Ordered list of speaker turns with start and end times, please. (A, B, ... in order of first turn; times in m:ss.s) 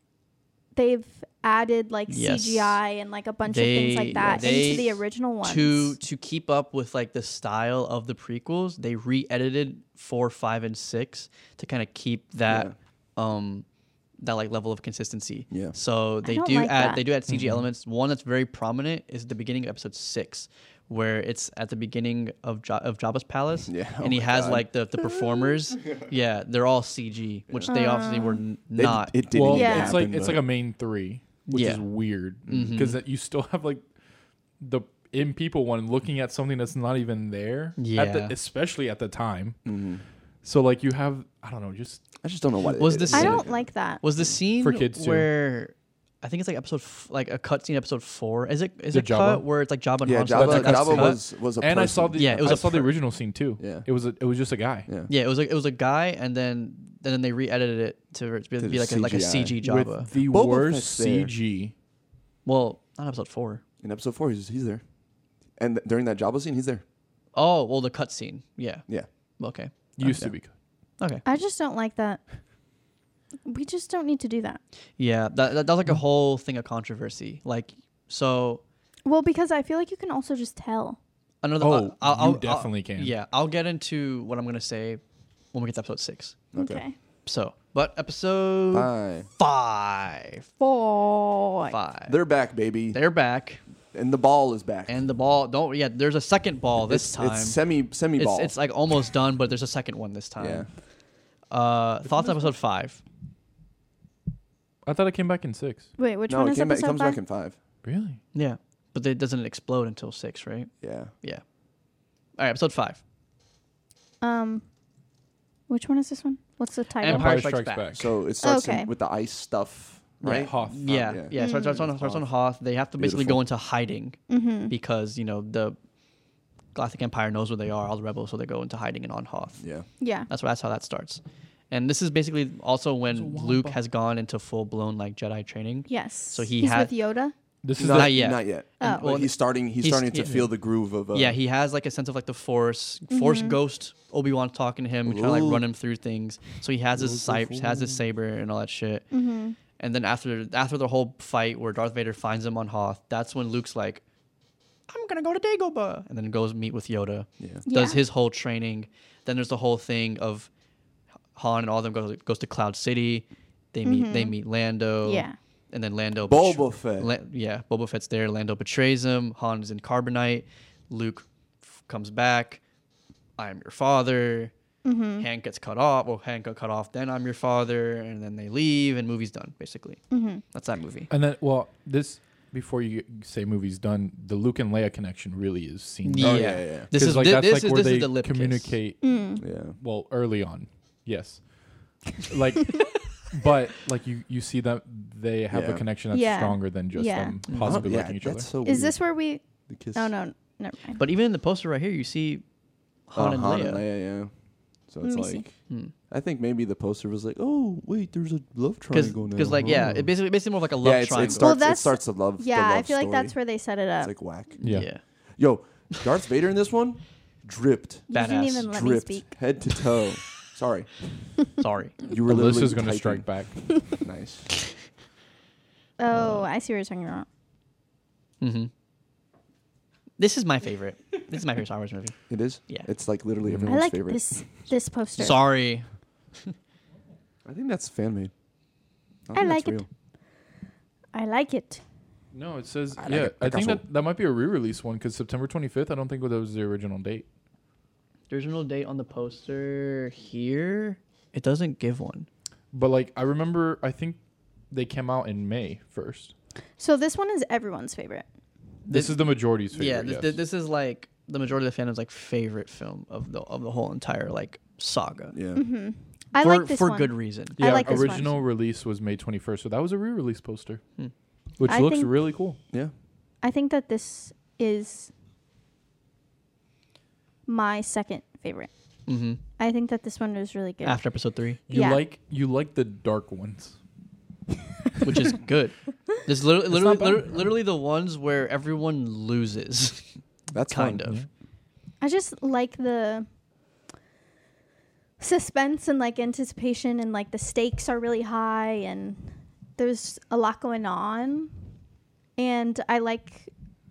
0:00.7-0:06.0 A
0:02.1-0:02.8 B
0:03.4-0:13.6 B
0:04.2-0:04.8 C
0:12.5-0:12.7 C
0:14.2-0:29.2 B
0:15.5-0:15.8 C
0:16.2-0:17.0 A
0:17.3-0:17.7 D
0:23.7-0:26.1 C
0:27.5-0:27.8 C
0:27.7-0:28.4 A
0:28.7-0:30.4 C
0:29.3-0:33.9 D
0:29.5-0:30.0 A
0:31.5-0:31.8 B
0:32.4-0:33.0 B
0:32.5-0:32.8 C
0:34.6-0:39.6 D
0:37.8-0:38.3 B
0:39.6-0:40.0 C
0:40.4-0:42.0 D
0:42.2-0:44.3 C
0:42.7-0:51.2 B
0:43.1-0:44.0 A
0:44.6-0:45.3 D
0:48.9-0:49.4 D
0:50.0-0:52.9 C
0:50.3-0:54.9 D
0:52.2-0:52.9 B
0:53.6-0:53.8 C
0:55.1-1:00.1 B
0:58.6-0:59.6 C
0:59.6-1:01.7 D
1:00.3-1:01.3 C
1:02.4-1:03.6 B
1:03.8-1:04.8 C
1:05.6-1:06.8 C
1:07.3-1:09.7 B
1:10.0-1:10.5 D
1:10.0-1:10.3 C
1:11.2-1:12.2 A
1:13.4-1:14.6 A
1:15.0-1:18.6 B
1:19.0-1:21.0 A
1:21.4-1:25.0 B
1:21.6-1:23.1 D
1:25.5-1:26.4 B
1:26.5-1:26.8 C
1:26.6-1:27.0 A
1:27.2-1:30.5 B
1:28.7-1:29.3 C
1:30.6-1:31.7 A
1:31.7-1:32.2 B
1:32.1-1:33.0 C
1:32.9-1:33.6 B
1:33.9-1:35.0 C
1:34.9-1:40.7 B
1:36.8-1:38.5 C
1:40.4-1:40.7 C
1:41.5-1:43.0 B
1:44.8-1:45.9 D
1:46.0-1:47.2 A
1:46.3-1:47.6 C
1:47.8-1:48.2 D
1:48.3-1:51.4 B
1:50.8-1:51.1 C
1:52.4-1:53.0 B
1:54.2-1:54.6 A
1:55.7-1:57.4 A
1:57.0-1:58.1 B
1:57.0-1:58.0 D
1:57.9-2:02.3 C
1:58.4-1:58.9 A
2:00.2-2:05.8 B
2:00.3-2:00.9 D
2:01.3-2:01.8 A
2:03.0-2:03.4 C
2:04.3-2:04.7 A
2:06.7-2:09.7 B
2:09.6-2:09.8 C
2:10.0-2:10.3 A
2:10.3-2:16.9 B
2:13.1-2:13.8 D
2:15.9-2:17.3 A
2:17.6-2:18.2 D
2:17.8-2:21.4 C
2:17.8-2:20.5 B
2:21.1-2:29.1 B
2:23.1-2:23.6 A
2:25.0-2:25.6 C
2:26.9-2:28.0 C
2:29.1-2:29.6 A
2:29.8-2:34.0 B
2:34.9-2:40.5 B
2:37.6-2:38.0 A
2:41.3-2:52.6 B
2:43.8-2:44.4 A
2:45.0-2:45.4 A
2:46.2-2:47.1 C
2:53.4-2:54.5 B
2:54.8-2:55.2 A
2:55.2-3:01.1 B
3:00.1-3:00.4 A
3:01.1-3:18.5 D
3:06.0-3:08.8 B
3:06.2-3:06.9 C
3:09.0-3:09.4 A
3:09.4-3:09.8 C
3:15.5-3:15.8 C
3:16.1-3:17.4 A
3:17.5-3:17.8 B
3:17.5-3:19.0 C
3:18.6-3:19.4 A
3:19.7-3:20.1 C
3:19.9-3:21.0 A
3:21.0-3:22.4 B
3:23.1-3:23.8 B
3:23.1-3:24.3 C
3:24.9-3:25.6 C
3:25.0-3:25.4 A
3:26.1-3:30.1 C
3:28.9-3:31.6 B
3:29.5-3:30.1 D
3:30.8-3:33.4 C
3:31.3-3:34.1 A
3:34.0-3:34.6 C
3:34.6-3:35.0 B
3:34.6-3:34.9 D
3:35.4-3:38.1 C
3:38.1-3:39.3 A
3:38.1-3:38.7 B
3:38.6-3:40.9 C
3:41.6-3:42.1 B
3:42.1-3:43.3 C
3:42.2-3:43.6 D
3:43.8-3:44.5 C
3:46.0-3:47.3 A
3:46.1-3:46.5 B
3:48.4-3:48.7 B
3:50.2-3:52.9 B
3:52.3-3:54.4 C
3:53.7-3:55.4 A
3:55.2-3:55.8 B
3:57.4-3:58.3 C
3:59.3-3:59.9 C
3:59.3-3:59.8 A
4:01.1-4:01.8 A
4:02.3-4:07.3 D
4:03.0-4:03.8 C
4:08.3-4:12.3 B
4:12.7-4:14.2 D
4:14.7-4:16.3 D
4:16.8-4:18.2 A
4:18.9-4:25.4 B
4:18.9-4:20.4 D
4:25.3-4:25.6 C
4:25.5-4:28.4 A
4:26.4-4:28.2 B
4:27.6-4:30.8 D
4:31.6-4:32.6 D
4:31.6-4:32.1 A
4:33.4-4:35.1 A
4:37.4-4:38.7 A
4:39.1-4:39.4 B
4:39.6-4:41.0 A
4:40.8-4:41.6 B
4:41.7-4:43.8 D
4:41.7-4:42.0 A
4:45.0-4:50.1 B
4:46.7-4:47.5 D
4:50.5-4:51.1 C
4:50.7-4:51.2 B
4:52.0-4:53.3 A
4:55.2-5:01.5 A
5:02.4-5:03.5 A